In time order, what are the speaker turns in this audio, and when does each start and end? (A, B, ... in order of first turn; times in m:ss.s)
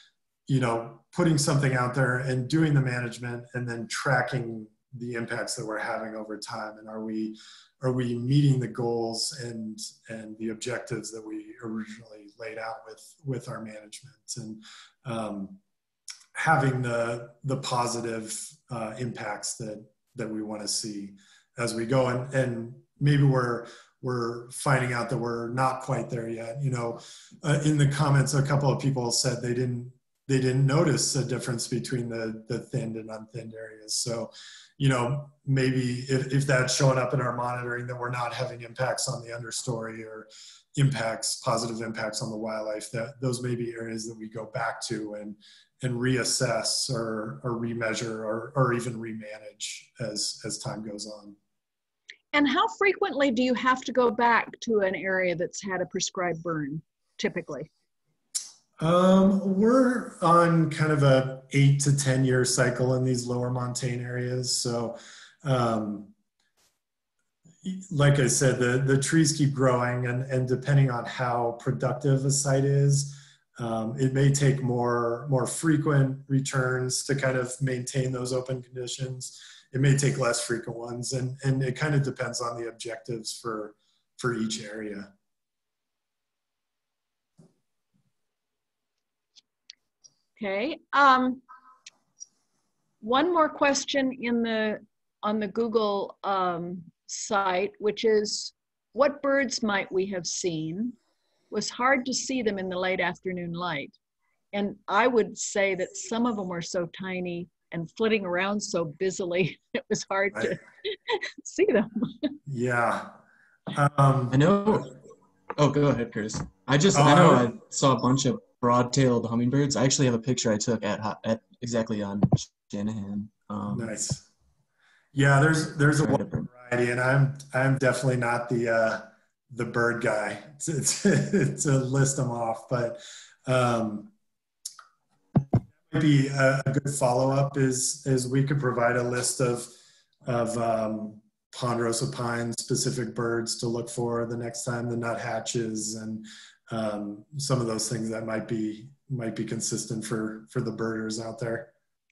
0:00.5-0:15.6 A
0:16.3-0:51.4 A
0:52.3-0:57.7 B
0:58.8-1:06.1 A
1:07.6-1:25.1 A
1:30.4-1:31.4 B
1:33.0-1:41.0 B
1:41.5-1:43.9 B
1:44.5-1:52.3 B
1:52.4-1:53.2 A
1:53.7-1:54.4 A
1:54.3-1:55.0 C
1:55.6-2:03.9 C
1:56.9-1:57.5 A
2:03.7-2:04.2 A
2:05.1-2:14.1 A
2:06.0-2:06.5 C
2:15.9-2:19.7 A
2:20.2-2:31.7 A